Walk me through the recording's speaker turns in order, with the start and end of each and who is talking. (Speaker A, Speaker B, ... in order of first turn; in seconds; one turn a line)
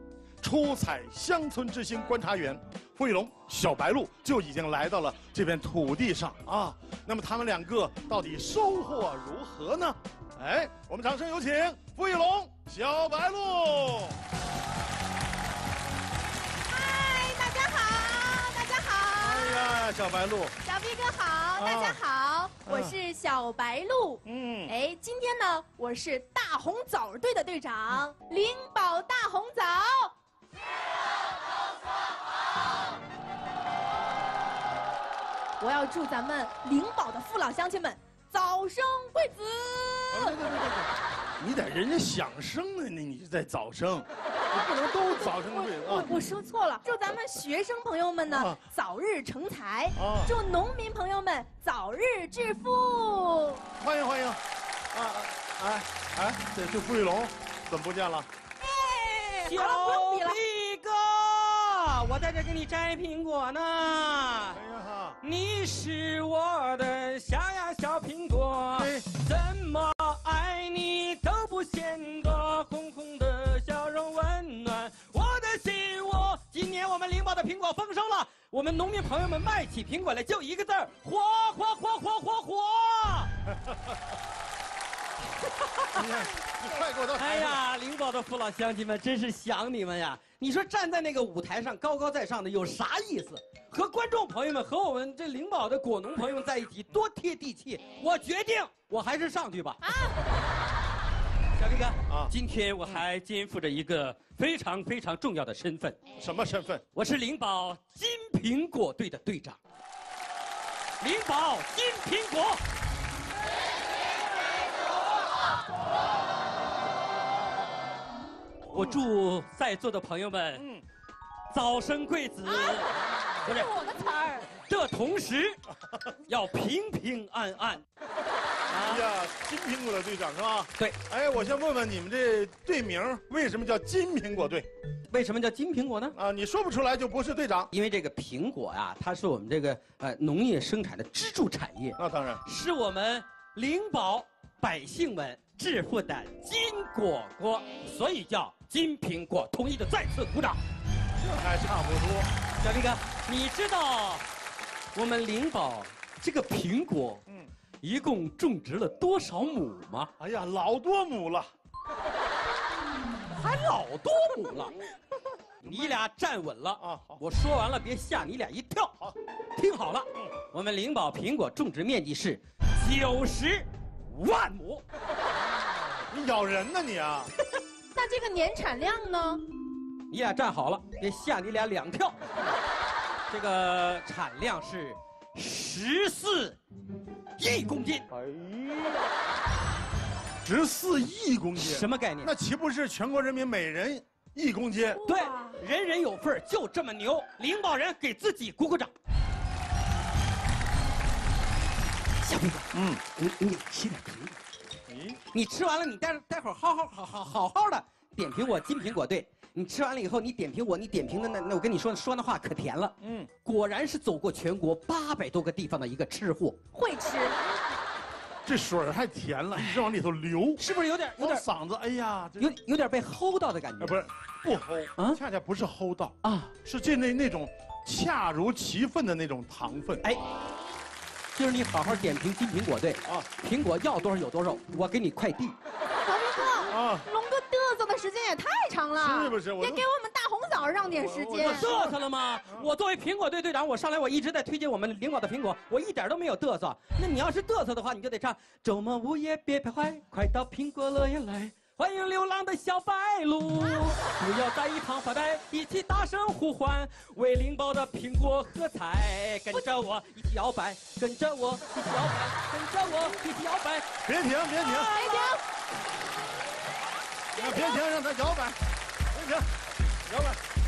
Speaker A: 0.4-14.2
Speaker B: 16.7-19.6
Speaker A: 19.2-20.6
Speaker B: 20.6-30.1
Speaker A: 21.6-22.0
Speaker A: 22.6-23.0
Speaker A: 24.2-24.7
Speaker B: 35.6-40.4
Speaker A: 40.1-46.1
Speaker B: 44.5-53.6
Speaker A: 48.3-48.6
Speaker A: 50.0-50.4
Speaker A: 53.8-54.4
Speaker A: 54.9-58.3
Speaker B: 58.6-60.4
Speaker C: 59.5-64.6
Speaker A: 64.5-65.2
Speaker C: 65.2-83.3
Speaker A: 68.8-69.0
Speaker A: 83.5-84.0
Speaker C: 85.6-86.0
Speaker A: 86.0-87.6
Speaker C: 87.2-99.8
Speaker B: 99.8-100.2
Speaker C: 101.6-106.0
Speaker A: 102.1-102.3
Speaker A: 106.2-106.8
Speaker C: 107.0-109.6
Speaker C: 111.0-112.6
Speaker C: 118.7-120.6
Speaker A: 118.7-119.0
Speaker A: 120.5-120.8
Speaker C: 121.5-122.9
Speaker B: 122.5-122.8
Speaker C: 123.5-123.7
Speaker B: 123.5-124.5
Speaker C: 124.6-125.6
Speaker C: 126.3-127.8
Speaker C: 128.7-129.0
Speaker A: 128.7-134.7
Speaker C: 135.1-136.2
Speaker A: 136.2-137.7
Speaker C: 137.7-150.6
Speaker A: 142.0-142.4
Speaker A: 151.2-152.3
Speaker C: 152.6-154.2
Speaker C: 154.9-157.2
Speaker C: 157.8-160.1
Speaker A: 160.2-161.5
Speaker C: 163.3-164.8
Speaker C: 165.6-168.9
Speaker A: 165.7-166.0
Speaker A: 166.8-167.2
Speaker C: 169.6-174.8
Speaker A: 176.1-177.3
Speaker B: 177.9-179.4
Speaker C: 180.1-182.2
Speaker C: 183.3-186.6
Speaker C: 187.4-188.1
Speaker A: 190.4-195.0
Speaker C: 191.6-192.3
Speaker B: 195.0-195.6
Speaker C: 195.1-198.9
Speaker C: 202.2-204.4
Speaker A: 202.7-203.0
Speaker A: 204.9-205.2
Speaker C: 205.3-216.6
Speaker A: 213.0-213.3
Speaker B: 216.7-217.4
Speaker A: 218.4-220.6
Speaker C: 220.6-221.4
Speaker A: 221.2-222.5
Speaker C: 222.4-224.0
Speaker A: 223.8-230.0
Speaker C: 226.2-226.5
Speaker C: 231.3-235.6
Speaker B: 236.0-241.7
Speaker A: 236.7-237.1
Speaker A: 239.0-239.8
Speaker A: 241.0-241.9
Speaker C: 241.4-263.9
Speaker A: 264.1-265.0
Speaker B: 264.9-265.4
Speaker A: 267.4-268.6
Speaker A: 269.1-269.5
Speaker A: 270.1-270.4